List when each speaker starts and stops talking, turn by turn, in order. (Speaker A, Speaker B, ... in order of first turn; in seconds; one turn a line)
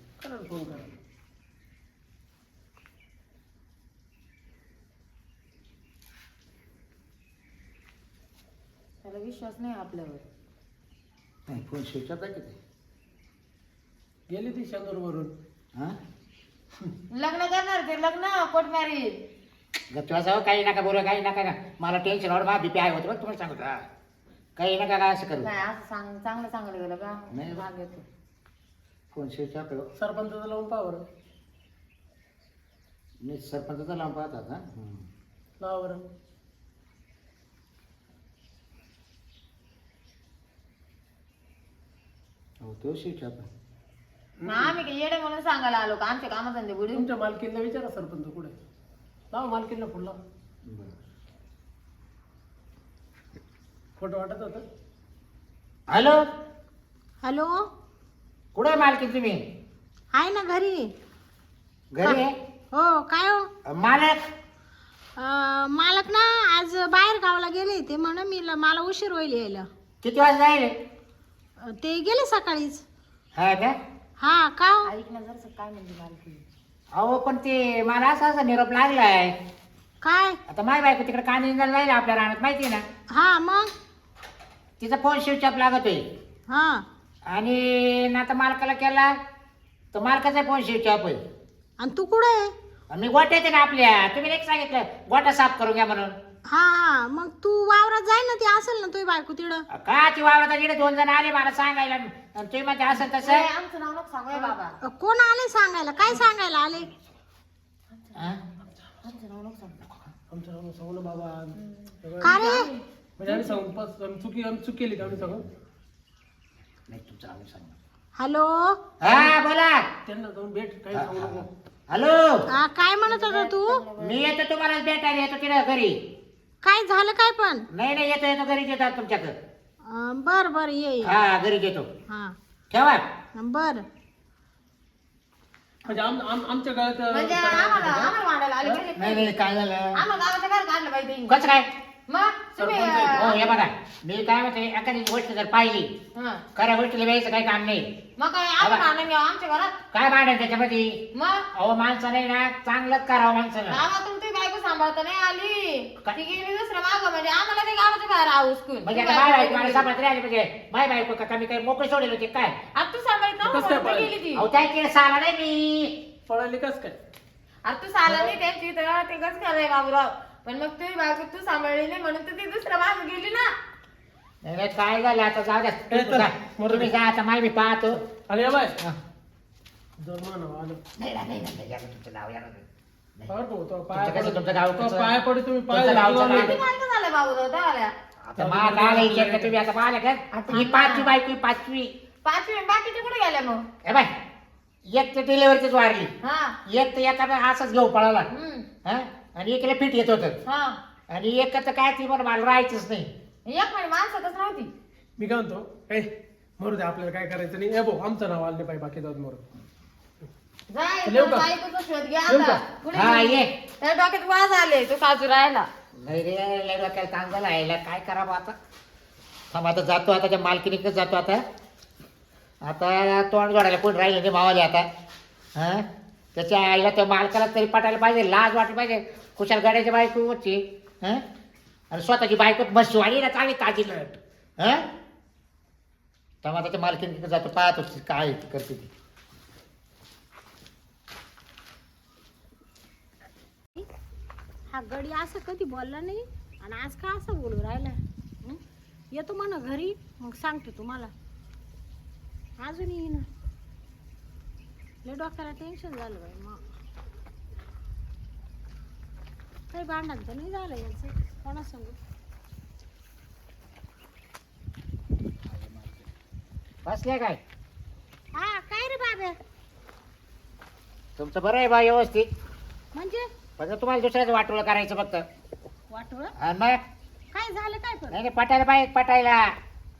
Speaker A: 0.2-0.9
Speaker B: 9.0-10.2
Speaker C: 11.5-12.6
Speaker A: 14.3-15.3
Speaker B: 17.1-19.2
Speaker C: 19.9-23.8
Speaker C: 24.6-25.5
Speaker B: 25.4-28.0
Speaker C: 27.3-27.7
Speaker C: 29.1-29.9
Speaker A: 30.0-31.0
Speaker C: 33.2-35.0
Speaker A: 35.6-36.0
Speaker C: 42.6-43.5
Speaker A: 44.4-44.8
Speaker B: 44.5-47.0
Speaker A: 46.9-48.5
Speaker A: 49.3-50.2
Speaker C: 50.6-50.9
Speaker A: 54.0-54.6
Speaker C: 55.9-56.2
Speaker D: 57.2-57.6
Speaker C: 58.5-59.4
Speaker D: 60.1-60.9
Speaker C: 61.9-62.3
Speaker D: 62.0-63.5
Speaker C: 63.7-64.2
Speaker D: 65.2-69.7
Speaker C: 70.0-70.8
Speaker D: 71.6-72.8
Speaker C: 73.3-73.8
Speaker D: 74.2-74.9
Speaker B: 74.8-76.4
Speaker C: 76.9-79.4
Speaker D: 80.0-80.4
Speaker C: 80.5-82.8
Speaker D: 83.1-83.7
Speaker C: 84.8-86.0
Speaker D: 86.5-86.8
Speaker C: 87.3-89.2
Speaker C: 89.9-91.2
Speaker D: 91.8-92.5
Speaker C: 92.9-96.1
Speaker D: 96.5-99.6
Speaker C: 99.7-103.5
Speaker B: 102.9-104.7
Speaker D: 104.4-106.9
Speaker B: 108.0-108.3
Speaker B: 109.0-109.8
Speaker A: 110.3-112.4
Speaker B: 111.5-113.6
Speaker D: 112.2-112.7
Speaker A: 113.2-115.5
Speaker C: 116.9-117.7
Speaker D: 118.2-118.8
Speaker C: 119.0-119.9
Speaker A: 120.0-121.5
Speaker C: 120.9-122.4
Speaker D: 122.5-123.8
Speaker B: 123.1-124.2
Speaker C: 124.0-126.0
Speaker D: 126.6-127.7
Speaker C: 127.7-129.3
Speaker D: 129.8-131.2
Speaker C: 131.0-131.9
Speaker D: 132.1-132.3
Speaker C: 132.7-133.0
Speaker D: 133.3-133.8
Speaker A: 135.8-138.8
Speaker B: 137.1-139.3
Speaker C: 138.9-140.0
Speaker B: 139.9-141.3
Speaker C: 141.3-141.7
Speaker B: 142.1-143.5
Speaker A: 142.6-143.4
Speaker C: 143.1-145.9
Speaker B: 146.1-146.4
Speaker C: 146.5-147.9
Speaker B: 148.2-149.8
Speaker C: 148.6-148.9
Speaker C: 149.9-153.8
Speaker B: 151.1-151.4
Speaker B: 153.7-159.9
Speaker C: 158.8-162.6
Speaker B: 162.7-164.4
Speaker A: 163.4-164.2
Speaker C: 164.3-166.0
Speaker A: 166.3-167.0
Speaker B: 167.6-173.5
Speaker A: 168.1-168.4
Speaker C: 174.4-178.0
Speaker A: 175.9-176.9
Speaker A: 177.9-178.8
Speaker A: 180.0-180.8
Speaker C: 181.0-182.6
Speaker A: 183.3-186.6
Speaker C: 183.9-186.6
Speaker B: 186.2-187.9
Speaker C: 188.3-191.9
Speaker A: 188.3-189.5
Speaker B: 190.3-191.1
Speaker B: 192.2-193.6
Speaker C: 193.8-194.1
Speaker C: 194.8-196.1
Speaker B: 196.2-196.6
Speaker C: 196.7-198.3
Speaker B: 198.3-198.7
Speaker C: 198.8-200.4
Speaker B: 200.4-200.8
Speaker C: 201.1-203.1
Speaker B: 203.4-204.7
Speaker A: 205.2-209.4
Speaker B: 210.7-215.7
Speaker A: 211.0-211.5
Speaker A: 212.2-212.6
Speaker C: 212.9-213.5
Speaker C: 216.0-218.6
Speaker C: 219.5-221.4
Speaker C: 222.6-224.9
Speaker C: 225.6-231.2
Speaker C: 231.9-234.8
Speaker C: 236.4-238.9
Speaker D: 244.7-248.6
Speaker D: 249.1-251.1
Speaker D: 252.6-253.2
Speaker D: 255.0-256.6
Speaker D: 259.7-261.9
Speaker C: 265.5-265.9
Speaker C: 266.8-267.4
Speaker D: 268.3-269.4
Speaker C: 271.2-272.3
Speaker D: 272.9-273.2
Speaker C: 273.6-275.2
Speaker D: 275.9-276.3
Speaker C: 276.4-276.8
Speaker D: 277.3-278.2
Speaker C: 278.1-279.6